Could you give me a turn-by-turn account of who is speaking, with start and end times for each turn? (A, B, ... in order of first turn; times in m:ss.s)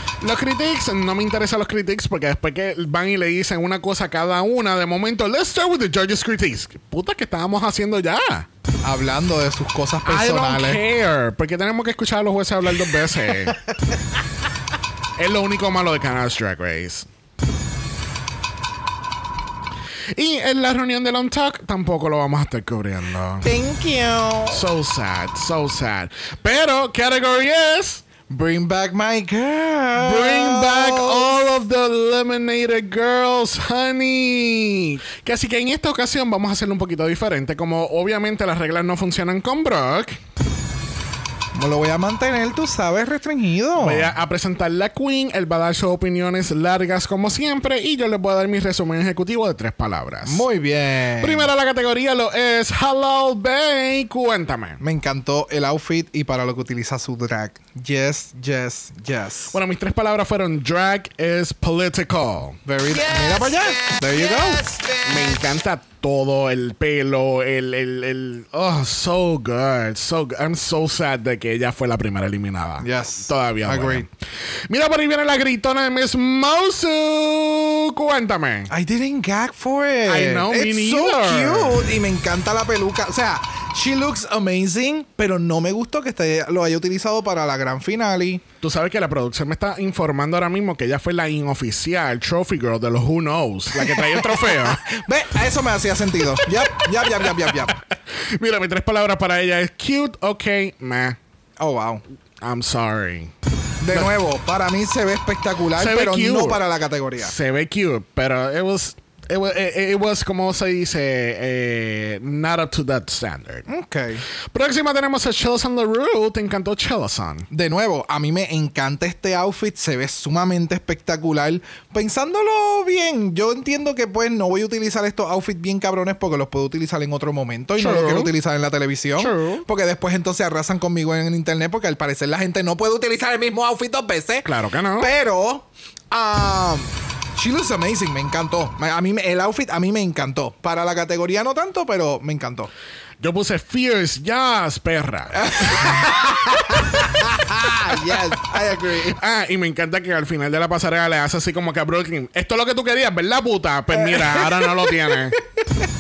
0:00.2-0:08.5 A
0:08.8-0:10.8 B
0:10.0-0:13.6 A
0:15.2-0:17.1 A
0:20.2-0:23.5 A
0:23.4-0:24.6 B
0:24.5-0:28.0 A
0:28.3-0:31.4 B
0:30.0-0:40.2 A
0:41.5-0:44.1 B
0:43.8-0:50.4 A
0:50.3-0:51.5 B
0:51.2-0:54.8 A
0:54.8-0:59.6 B
0:59.5-1:02.6 A
1:02.6-1:04.7 B
1:05.0-1:14.1 A
1:12.8-1:14.1 B
1:14.7-1:18.7 A
1:18.7-1:28.4 B
1:20.1-1:22.0 A
1:28.6-1:34.8 A
1:33.8-1:37.8 B
1:36.6-1:37.8 A
1:38.4-1:41.2 A
1:41.6-1:42.0 B
1:42.4-1:43.3 A
1:43.8-1:47.3 B
1:45.8-1:46.6 A
1:47.2-1:53.7 A
1:53.7-1:54.2 B
1:54.5-1:57.5 A
1:57.5-2:22.7 B
2:07.8-2:08.3 A
2:09.2-2:09.7 A
2:14.4-2:15.1 A
2:23.2-2:26.1 A
2:25.4-2:29.2 B
2:29.1-2:35.4 A
2:33.9-2:35.1 B